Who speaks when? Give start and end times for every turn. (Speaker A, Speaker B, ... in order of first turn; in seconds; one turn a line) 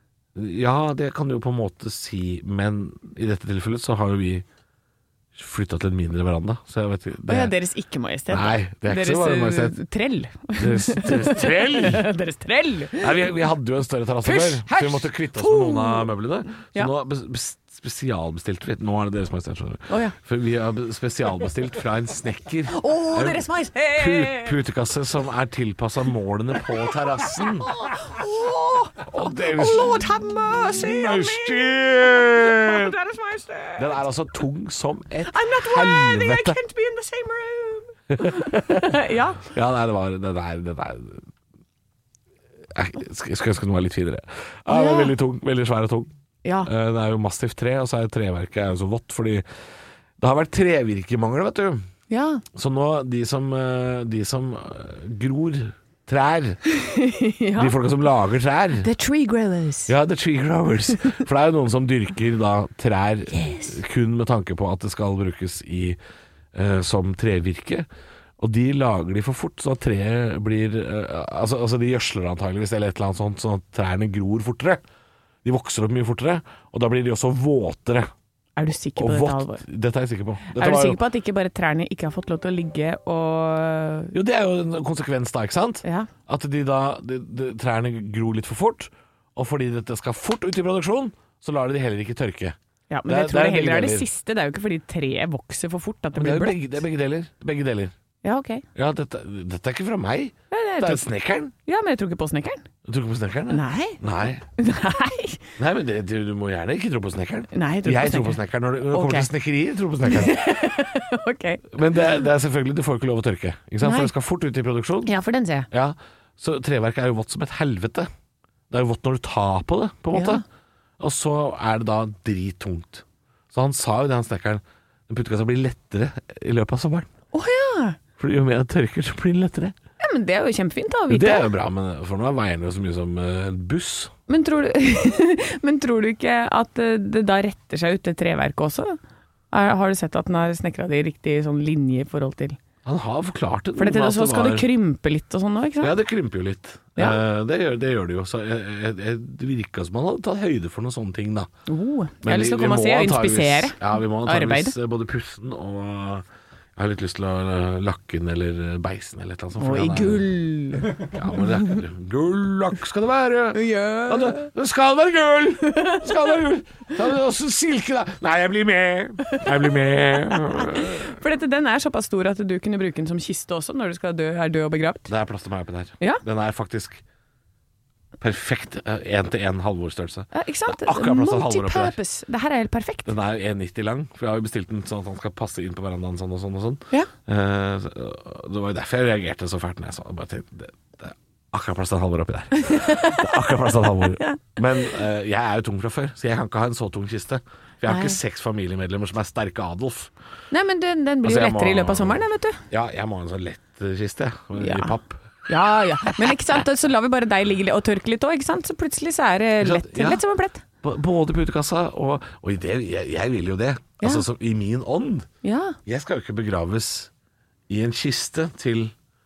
Speaker A: 0.3-4.5
Speaker A: 5.3-7.5
Speaker B: 7.3-13.3
Speaker A: 8.3-9.8
Speaker A: 10.6-12.1
Speaker A: 13.0-27.8
Speaker B: 14.2-16.1
Speaker B: 19.9-20.1
Speaker B: 22.7-24.6
Speaker B: 27.8-34.0
Speaker A: 29.0-30.0
Speaker A: 30.7-32.9
Speaker A: 33.8-36.6
Speaker B: 35.3-39.5
Speaker A: 38.1-41.3
Speaker A: 42.7-46.1
Speaker B: 44.7-45.1
Speaker B: 46.5-46.7
Speaker A: 46.6-49.5
Speaker A: 50.2-51.9
Speaker B: 52.1-52.4
Speaker A: 52.5-56.6
Speaker B: 56.8-57.8
Speaker A: 57.6-58.9
Speaker B: 58.8-59.9
Speaker A: 59.9-66.0
Speaker B: 63.3-63.7
Speaker A: 66.5-67.9
Speaker A: 68.4-74.8
Speaker A: 75.4-78.1
Speaker B: 78.6-79.6
Speaker A: 79.0-81.0
Speaker B: 80.5-84.1
Speaker A: 84.1-92.6
Speaker B: 85.8-86.1
Speaker B: 92.9-96.6
Speaker A: 93.1-94.1
Speaker A: 96.2-97.9
Speaker B: 98.2-98.7
Speaker A: 98.8-101.5
Speaker B: 100.5-101.1
Speaker B: 101.7-102.7
Speaker A: 102.8-104.5
Speaker B: 103.5-104.0
Speaker B: 104.6-105.4
Speaker A: 105.6-110.5
Speaker B: 107.5-108.4
Speaker B: 108.9-109.3
Speaker B: 110.1-111.7
Speaker A: 111.7-115.1
Speaker B: 113.8-114.1
Speaker B: 115.1-115.7
Speaker A: 115.7-118.1
Speaker A: 118.7-120.4
Speaker B: 120.1-120.4
Speaker A: 121.0-127.1
Speaker B: 127.3-128.0
Speaker A: 128.2-129.8
Speaker B: 130.0-131.5
Speaker A: 131.1-134.1
Speaker B: 134.3-139.0
Speaker B: 139.5-142.6
Speaker A: 142.8-144.7
Speaker B: 143.8-145.9
Speaker A: 145.8-151.5
Speaker B: 151.7-154.8
Speaker A: 152.2-156.2
Speaker A: 156.8-160.2
Speaker B: 159.6-161.8
Speaker A: 161.0-171.2
Speaker B: 163.5-164.5
Speaker B: 165.7-166.3
Speaker B: 170.1-175.1
Speaker A: 175.1-177.0
Speaker A: 178.2-182.0
Speaker B: 180.3-183.1
Speaker A: 183.1-200.1
Speaker B: 192.5-194.4
Speaker B: 197.9-198.2
Speaker B: 200.5-202.6
Speaker A: 201.2-205.3
Speaker B: 204.6-205.0
Speaker B: 205.5-210.6
Speaker A: 209.6-210.2
Speaker A: 210.8-215.3
Speaker B: 214.0-214.2
Speaker B: 215.4-215.8
Speaker A: 215.8-217.1
Speaker A: 217.7-218.9